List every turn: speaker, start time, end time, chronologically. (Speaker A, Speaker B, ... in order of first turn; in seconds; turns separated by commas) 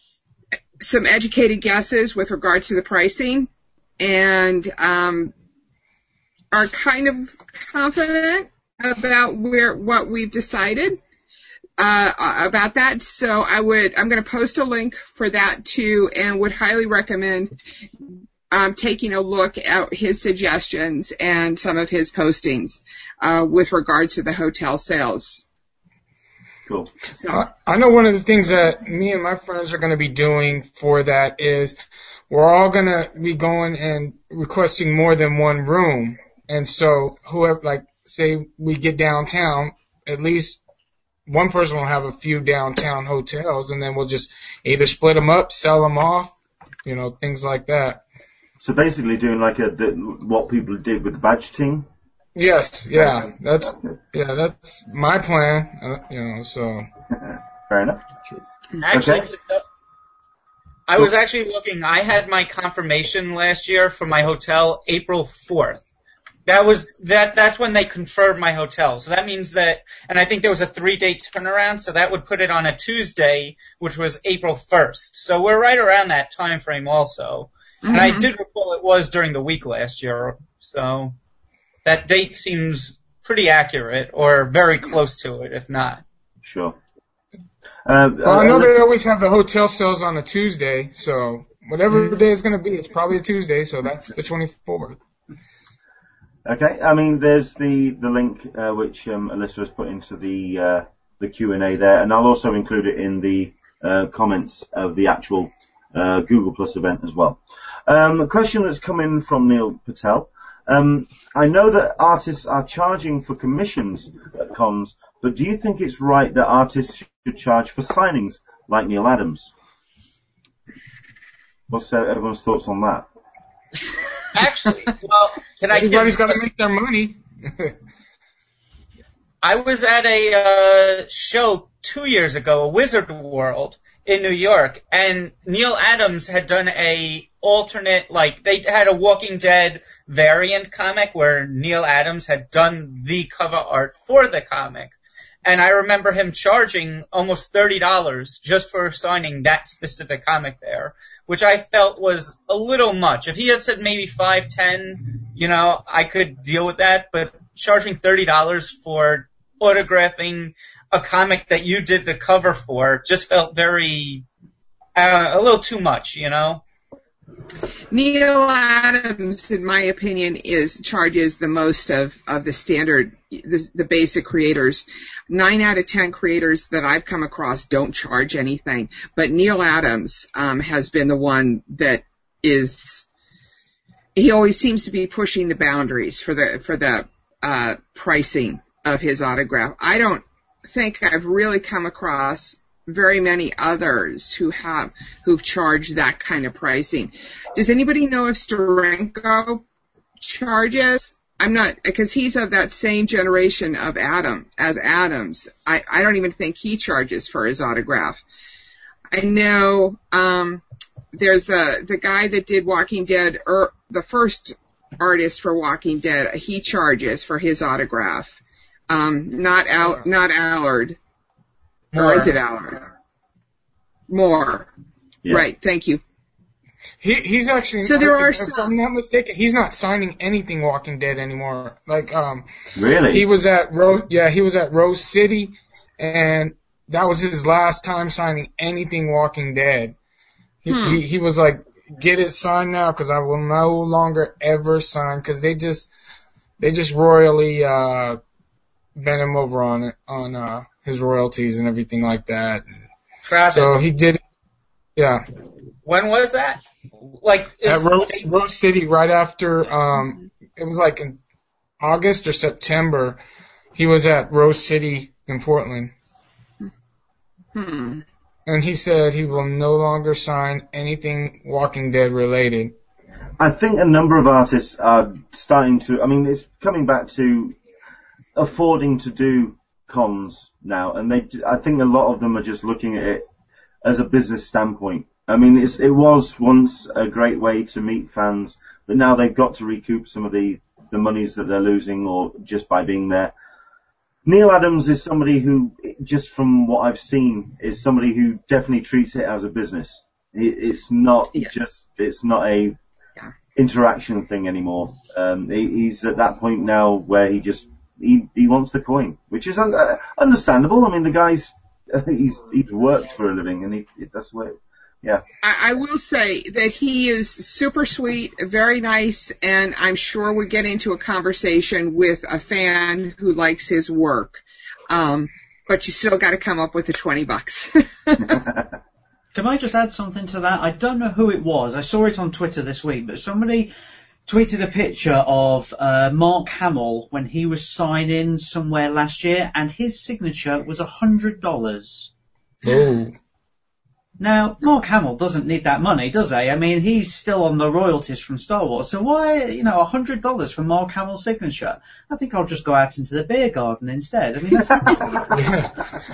Speaker A: 0.8-3.5, Speaker A: 4.0-5.3, Speaker A: 6.5-11.0, Speaker A: 11.8-17.5, Speaker A: 18.5-25.4, Speaker A: 27.1-27.4, Speaker B: 27.3-31.8, Speaker B: 32.3-40.6, Speaker B: 41.3-46.3, Speaker B: 46.9-48.0, Speaker C: 48.6-51.9, Speaker B: 52.4-56.9, Speaker C: 52.9-53.9, Speaker C: 57.2-58.1, Speaker D: 58.8-59.6, Speaker C: 58.9-59.3, Speaker D: 60.9-65.9, Speaker D: 66.5-81.2, Speaker A: 77.8-78.3, Speaker D: 81.8-86.0, Speaker C: 86.4-86.8, Speaker C: 87.9-88.8, Speaker B: 88.2-95.0, Speaker C: 96.5-119.5, Speaker C: 121.7-123.1, Speaker D: 124.3-126.4, Speaker B: 125.7-127.7, Speaker D: 129.4-144.9, Speaker D: 145.4-164.2, Speaker D: 164.9-166.6, Speaker A: 167.9-183.1, Speaker A: 184.2-199.6, Speaker A: 200.2-208.2, Speaker A: 209.1-210.6, Speaker A: 211.1-221.0, Speaker D: 221.9-222.3, Speaker A: 222.0-222.9, Speaker A: 224.1-224.7, Speaker A: 225.3-226.0, Speaker B: 227.0-232.5, Speaker A: 227.8-228.8, Speaker C: 232.8-233.3, Speaker B: 233.1-239.9, Speaker B: 240.6-245.9, Speaker A: 240.7-241.0, Speaker B: 246.6-248.2, Speaker B: 248.9-252.6, Speaker D: 253.2-253.8, Speaker B: 253.5-254.2, Speaker B: 255.0-255.2, Speaker D: 255.8-258.3, Speaker B: 257.7-261.2, Speaker B: 261.8-263.2, Speaker B: 263.8-265.9, Speaker A: 267.6-268.1, Speaker B: 268.5-272.7, Speaker C: 273.4-277.6, Speaker C: 278.4-283.3, Speaker C: 283.8-293.3, Speaker C: 294.3-302.8, Speaker C: 303.6-315.2, Speaker A: 315.4-328.4, Speaker E: 329.3-333.7, Speaker E: 334.3-342.1, Speaker B: 342.6-343.2, Speaker E: 344.2-355.3, Speaker C: 354.8-355.2, Speaker B: 355.3-355.7